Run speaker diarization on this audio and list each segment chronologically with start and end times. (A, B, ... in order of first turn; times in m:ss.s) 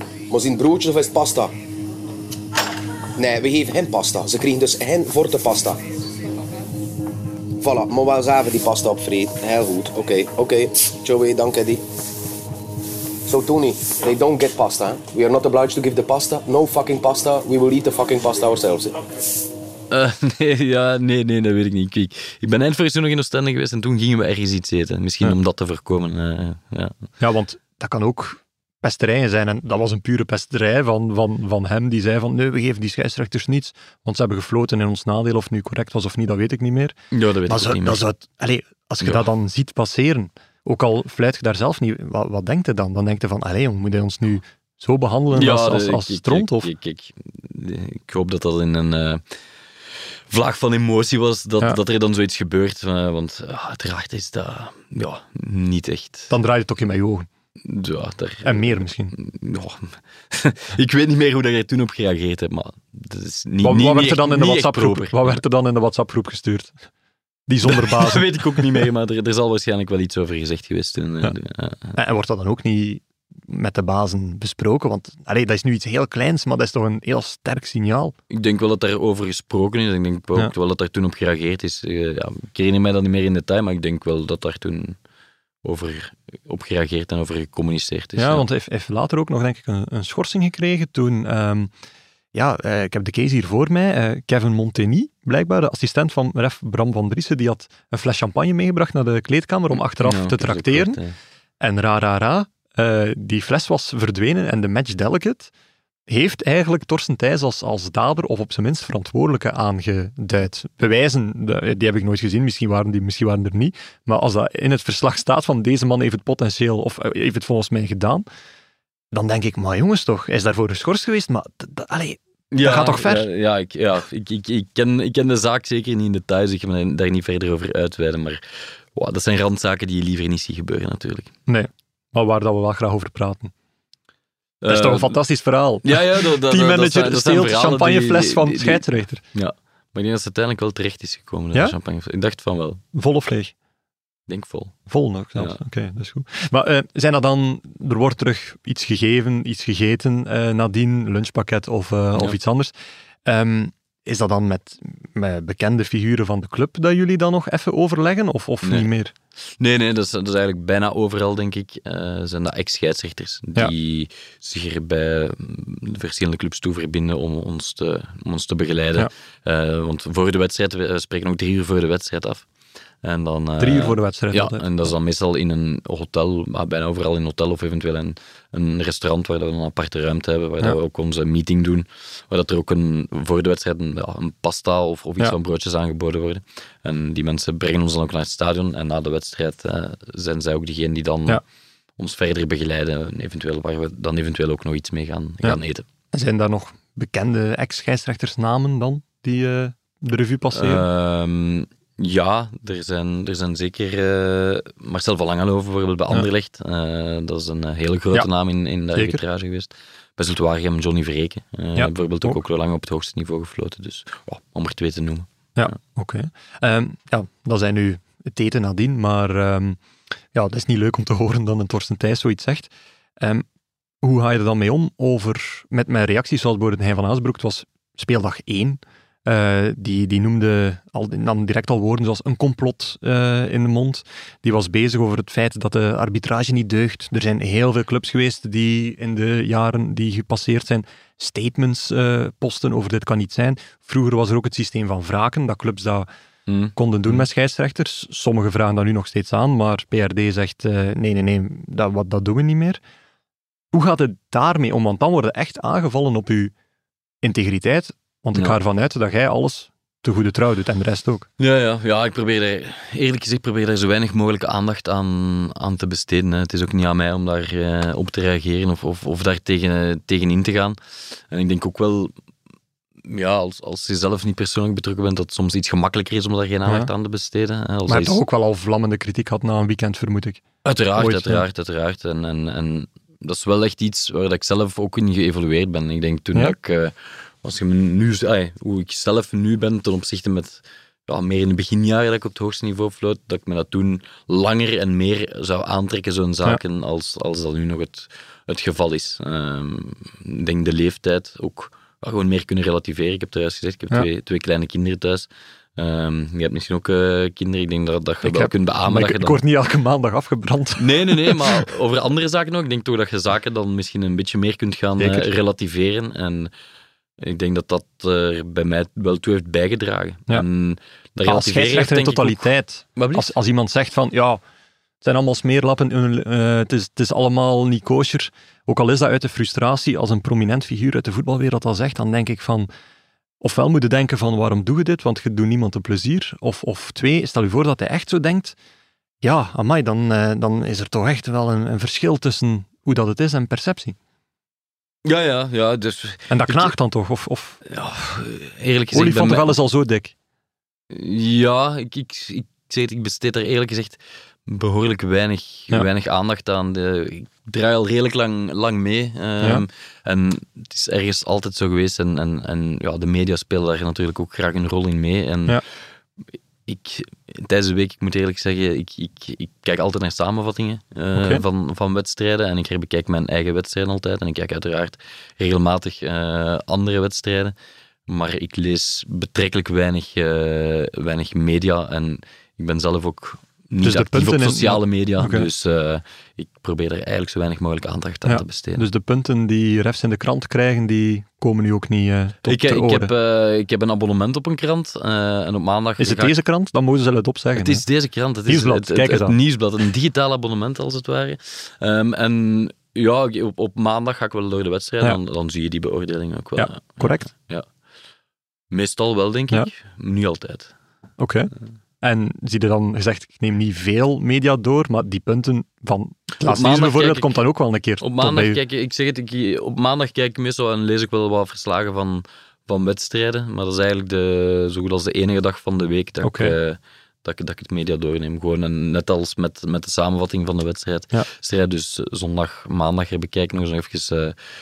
0:00.3-0:01.5 A
0:03.2-0:05.8 A
0:07.6-0:11.8 A
0:13.3-0:19.0 A
0:19.9-0:27.0 B
0:27.2-0:37.0 C
0:37.1-0:38.0 B
0:37.5-0:46.7 C
0:45.3-0:49.2 B
0:50.3-0:56.3 B
0:56.3-0:57.3 C
0:57.6-1:05.4 B
0:58.4-0:59.1 C
1:03.6-1:06.7 C
1:07.5-1:08.8 C
1:07.7-1:12.0 B
1:12.0-1:18.1 C
1:18.3-1:25.0 B
1:25.6-1:28.4 B
1:28.2-1:31.7 C
1:32.3-1:41.0 C
1:40.0-1:41.2 B
1:41.6-1:45.5 C
1:46.1-1:58.3 C
1:59.1-2:03.3 C
2:02.5-2:08.4 B
2:09.0-2:11.3 B
2:11.5-2:13.5 C
2:14.6-2:15.2 B
2:14.7-2:19.2 C
2:15.8-2:22.8 B
2:23.0-2:23.5 C
2:24.3-2:25.6 B
2:24.9-2:32.7 C
2:33.3-2:39.1 C
2:38.6-2:38.9 B
2:39.6-2:52.4 B
2:53.0-3:11.4 B
2:53.6-2:54.9 C
3:12.0-3:15.8 B
3:16.1-3:20.8 C
3:20.6-3:35.7 B
3:28.9-3:29.2 C
3:31.8-3:32.4 C
3:35.6-3:39.8 C
3:40.3-3:43.4 C
3:44.0-4:06.1 C
4:06.5-4:07.3 B
4:06.8-4:12.8 C
4:13.7-4:16.5 C
4:17.2-4:21.3 C
4:21.4-4:30.8 B
4:31.3-4:32.1 B
4:33.0-4:38.2 B
4:37.9-4:40.4 C
4:40.6-5:09.4 B
4:41.0-4:41.4 C
5:08.2-5:11.7 C
5:10.8-5:16.5 B
5:15.0-5:15.3 C
5:17.2-5:23.3 B
5:21.2-5:24.4 C
5:25.0-5:32.7 C
5:33.4-5:38.6 C
5:39.2-5:44.0 C
5:45.0-5:46.7 B
5:46.3-5:47.6 C
5:47.7-5:49.6 B
5:48.9-5:50.1 C
5:50.9-6:05.6 B
6:06.7-6:17.5 B
6:11.2-6:11.4 C
6:18.1-6:28.9 B
6:23.8-6:25.5 C
6:28.3-6:33.1 C
6:32.4-6:36.4 B
6:36.0-6:37.8 C
6:37.6-6:47.7 B
6:38.5-6:39.4 C
6:46.6-6:47.3 C
6:48.7-6:50.7 B
6:51.2-6:51.5 C
6:52.0-6:58.6 C
6:56.4-6:57.4 B
6:58.0-7:14.4 B
7:06.2-7:06.5 C